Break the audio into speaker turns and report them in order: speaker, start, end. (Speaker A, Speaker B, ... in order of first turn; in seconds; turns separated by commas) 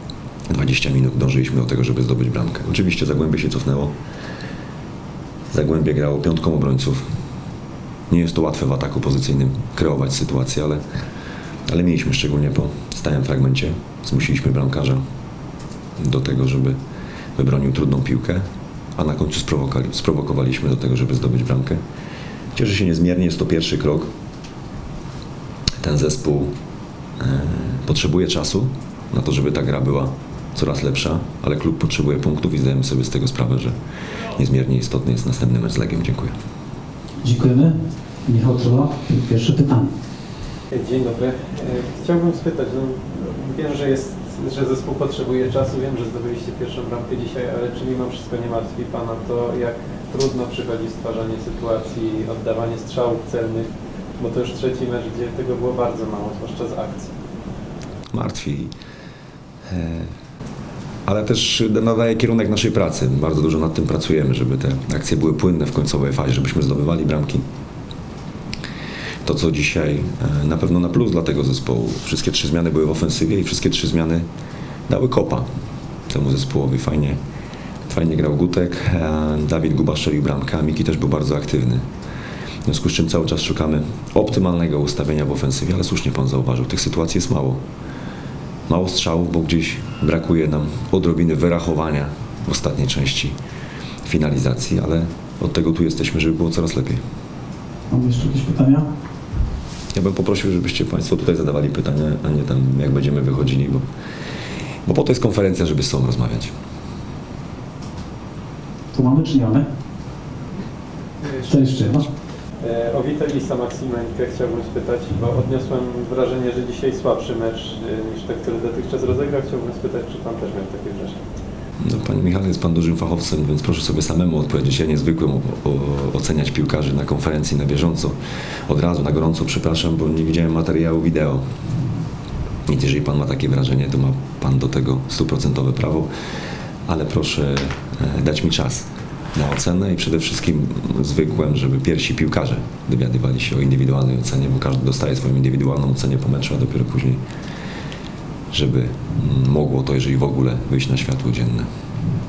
Speaker A: 0.5-3.9, Speaker A: 5.5-7.0, Speaker A: 8.1-10.8, Speaker A: 11.7-15.0, Speaker A: 16.0-16.8, Speaker A: 17.4-18.4, Speaker A: 19.0-21.8, Speaker A: 22.5-24.1, Speaker A: 25.8-26.5, Speaker A: 27.2-33.7, Speaker A: 34.3-36.3, Speaker B: 37.2-37.7, Speaker B: 38.2-39.9, Speaker C: 40.7-57.1, Speaker A: 58.1-58.7, Speaker A: 59.7-60.1, Speaker A: 61.0-67.4, Speaker A: 69.2-74.2, Speaker A: 74.9-75.5, Speaker A: 76.1-77.2, Speaker A: 77.8-81.8, Speaker A: 82.7-87.6, Speaker A: 88.7-93.3, Speaker A: 94.0-97.0, Speaker B: 97.9-98.8, Speaker A: 99.9-103.8, Speaker A: 104.8-106.5, Speaker B: 108.9-109.6, Speaker B: 111.4-112.0, Speaker C: 112.6-121.2, Speaker A: 121.8-128.2, Speaker A: 128.7-131.4, Speaker A: 132.7-136.1, Speaker A: 136.9-147.2, Speaker A: 148.5-151.7